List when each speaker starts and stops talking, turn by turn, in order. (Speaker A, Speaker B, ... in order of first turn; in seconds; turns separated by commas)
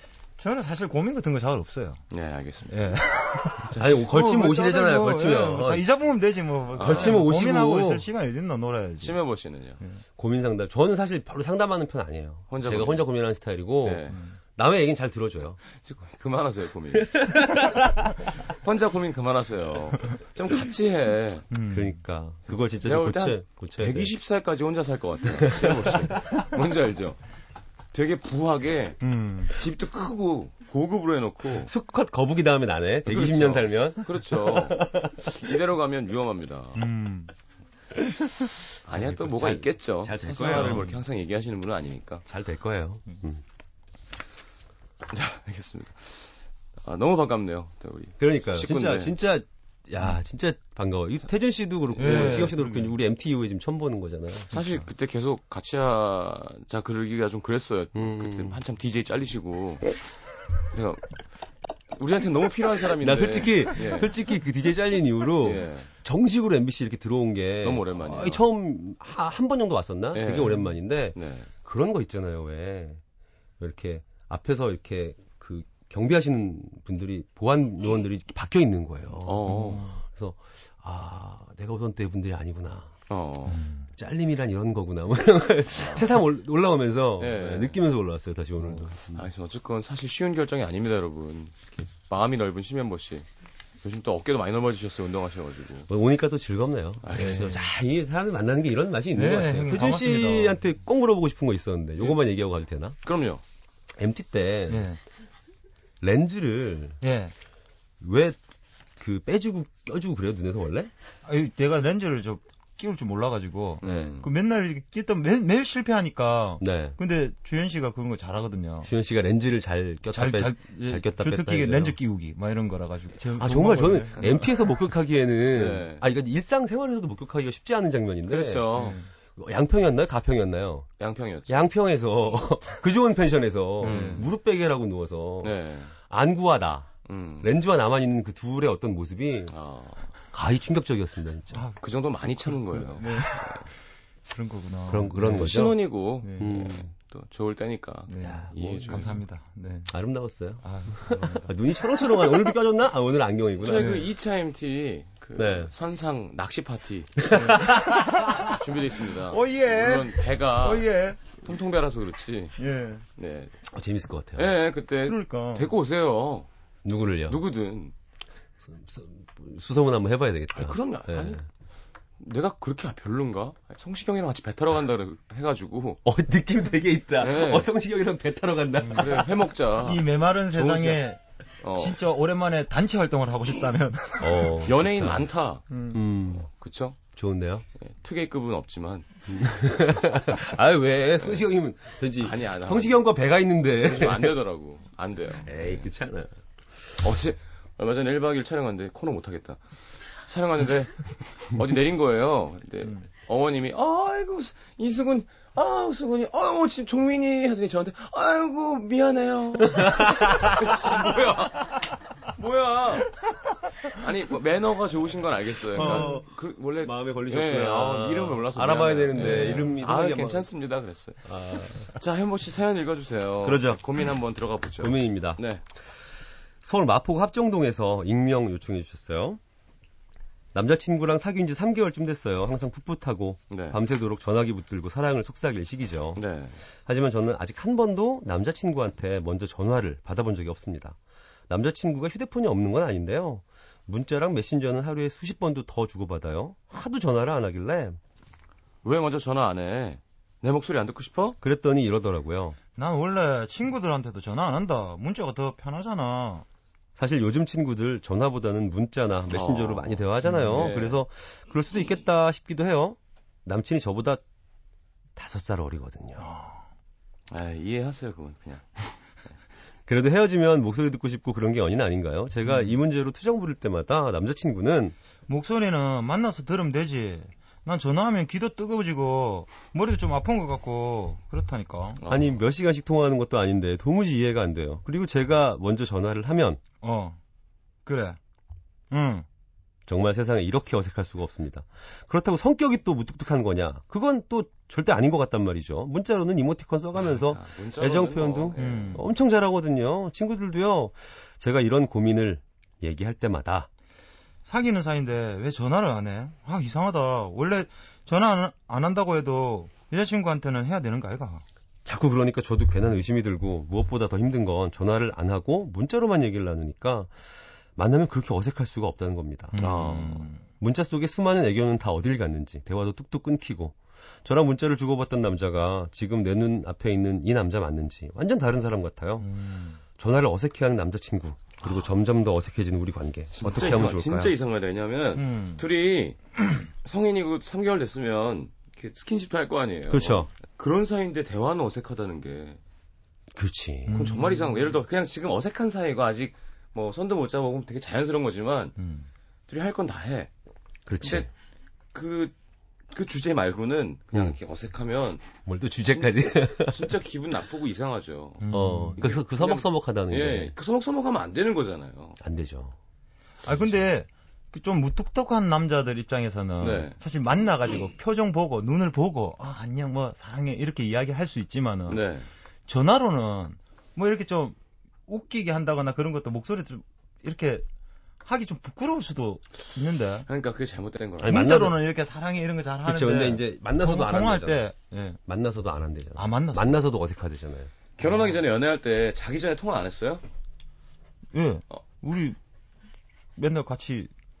Speaker A: 0.4-2.0, Speaker B: 2.1-3.0, Speaker A: 2.7-9.2, Speaker B: 3.6-4.1, Speaker C: 3.8-5.8, Speaker B: 6.7-7.2, Speaker C: 6.8-8.1, Speaker B: 9.0-9.8, Speaker C: 10.2-15.6, Speaker B: 12.5-13.1, Speaker B: 13.8-14.2, Speaker A: 14.1-14.4, Speaker B: 15.8-17.6, Speaker C: 16.9-18.2, Speaker B: 18.4-21.5, Speaker A: 21.5-22.0, Speaker C: 21.7-24.1, Speaker B: 22.5-27.2, Speaker C: 25.4-26.3, Speaker B: 27.9-31.7, Speaker A: 29.0-29.5, Speaker C: 31.6-35.4, Speaker B: 33.0-36.8, Speaker A: 36.8-37.3, Speaker C: 37.9-40.9, Speaker B: 38.8-42.2, Speaker A: 40.5-40.9, Speaker C: 42.2-43.4, Speaker B: 45.1-46.3, Speaker B: 46.8-49.2, Speaker C: 48.2-54.5, Speaker B: 52.0-52.5, Speaker A: 52.0-52.9, Speaker B: 54.5-60.0, Speaker C: 57.9-58.6, Speaker B: 60.7-61.2, Speaker B: 61.9-64.1, Speaker C: 62.9-73.0, Speaker B: 65.4-65.9, Speaker B: 67.6-68.4, Speaker B: 70.1-71.5, Speaker C: 73.6-82.9, Speaker B: 79.2-79.9, Speaker A: 79.5-79.9, Speaker B: 83.1-83.6, Speaker A: 83.5-83.9, Speaker C: 83.9-89.3, Speaker B: 85.7-86.1, Speaker B: 87.2-87.8, Speaker B: 89.1-93.3, Speaker B: 93.8-95.9, Speaker C: 95.9-103.0, Speaker B: 97.0-97.5, Speaker A: 97.1-97.7, Speaker A: 99.1-100.6, Speaker B: 103.0-103.4, Speaker C: 103.9-104.9, Speaker A: 104.7-105.0, Speaker C: 106.0-107.0, Speaker A: 107.0-107.3, Speaker C: 108.0-108.4, Speaker C: 109.0-110.9, Speaker A: 111.2-118.9, Speaker B: 113.8-114.3, Speaker C: 116.6-117.0, Speaker C: 118.8-122.0, Speaker A: 120.1-124.5, Speaker C: 123.3-128.8, Speaker B: 125.5-126.0, Speaker B: 128.2-129.0, Speaker A: 128.7-129.1, Speaker C: 129.3-130.9, Speaker B: 131.0-131.7, Speaker C: 131.5-136.9, Speaker B: 133.8-134.3, Speaker A: 133.8-134.3, Speaker B: 135.4-135.9, Speaker B: 137.1-137.6, Speaker C: 137.4-139.5, Speaker B: 139.5-140.1, Speaker C: 140.3-141.6, Speaker A: 141.5-141.8, Speaker B: 141.8-143.7, Speaker A: 142.7-143.7, Speaker A: 144.3-145.7, Speaker C: 144.9-145.8, Speaker B: 145.2-149.2, Speaker A: 146.2-146.7, Speaker C: 146.4-146.9, Speaker A: 148.1-149.9, Speaker C: 148.2-149.2, Speaker C: 149.9-154.1, Speaker A: 150.6-151.5, Speaker B: 153.6-157.6, Speaker C: 155.3-155.7, Speaker C: 157.2-158.6, Speaker A: 157.3-158.4, Speaker B: 158.2-162.6, Speaker A: 159.3-161.3, Speaker A: 162.6-163.0, Speaker B: 163.2-163.6, Speaker C: 163.6-164.6, Speaker B: 164.3-166.5, Speaker A: 165.0-165.7, Speaker C: 166.8-167.4, Speaker B: 167.3-167.9, Speaker C: 168.6-171.4, Speaker B: 170.5-171.4, Speaker B: 172.2-176.0, Speaker C: 176.0-179.3, Speaker B: 177.2-177.7, Speaker B: 178.9-181.0, Speaker A: 179.8-181.2, Speaker B: 181.6-182.0, Speaker A: 181.7-184.6, Speaker C: 184.2-185.2, Speaker B: 184.6-185.6, Speaker A: 185.7-186.0, Speaker C: 185.9-186.4, Speaker B: 186.4-187.0, Speaker C: 187.1-187.6, Speaker B: 187.8-189.1, Speaker C: 189.3-194.4, Speaker B: 192.2-193.0, Speaker B: 193.8-195.9, Speaker C: 195.4-196.3, Speaker B: 197.0-199.6, Speaker B: 200.2-213.1, Speaker C: 209.7-210.8, Speaker B: 213.9-225.6, Speaker C: 215.7-216.3, Speaker A: 215.8-216.2, Speaker C: 216.8-220.5, Speaker C: 221.2-221.9, Speaker C: 223.4-223.8, Speaker C: 224.8-225.4, Speaker C: 226.6-229.4, Speaker C: 230.5-236.2, Speaker B: 233.5-233.8, Speaker B: 236.2-236.6, Speaker C: 236.8-240.9, Speaker C: 241.5-248.0, Speaker B: 248.8-251.4, Speaker C: 251.4-252.6, Speaker A: 252.8-256.4, Speaker C: 256.9-264.2, Speaker B: 259.3-261.0, Speaker A: 260.2-260.7, Speaker C: 265.1-266.2, Speaker A: 266.2-266.6, Speaker B: 267.3-268.7, Speaker C: 269.9-274.9, Speaker A: 272.4-272.7, Speaker A: 275.3-282.0, Speaker B: 282.0-282.4, Speaker C: 282.1-286.6, Speaker A: 286.8-287.2, Speaker A: 287.9-288.2, Speaker A: 288.9-289.2, Speaker C: 289.9-303.7, Speaker B: 297.0-299.0, Speaker A: 298.6-299.0, Speaker A: 304.4-311.4, Speaker C: 311.8-317.1, Speaker C: 317.8-319.9, Speaker A: 319.5-320.4, Speaker B: 319.6-320.2, Speaker C: 320.6-329.3, Speaker A: 329.2-329.8, Speaker C: 329.9-334.4, Speaker B: 333.3-336.2, Speaker A: 335.1-335.6, Speaker B: 336.8-342.6, Speaker C: 339.9-340.3, Speaker C: 343.3-344.0, Speaker A: 343.9-344.7, Speaker B: 343.9-348.7, Speaker A: 348.8-349.1, Speaker B: 349.5-350.3, Speaker C: 350.9-351.3, Speaker B: 351.0-351.3, Speaker B: 351.9-352.3, Speaker B: 352.9-355.3, Speaker C: 354.1-354.4, Speaker C: 355.4-356.9, Speaker B: 355.9-358.4, Speaker A: 358.4-359.0, Speaker C: 358.5-360.5, Speaker B: 359.0-362.2, Speaker C: 362.2-362.8, Speaker A: 363.4-372.0, Speaker B: 366.6-367.0, Speaker B: 371.9-372.3, Speaker A: 372.7-374.6, Speaker A: 375.1-377.6, Speaker A: 378.2-380.2, Speaker B: 380.3-381.4, Speaker C: 381.2-381.8, Speaker A: 381.2-385.2, Speaker C: 382.8-384.6, Speaker C: 385.3-387.7, Speaker A: 386.1-386.8, Speaker B: 388.0-390.2, Speaker A: 388.0-388.3, Speaker A: 391.3-392.4, Speaker A: 393.4-394.1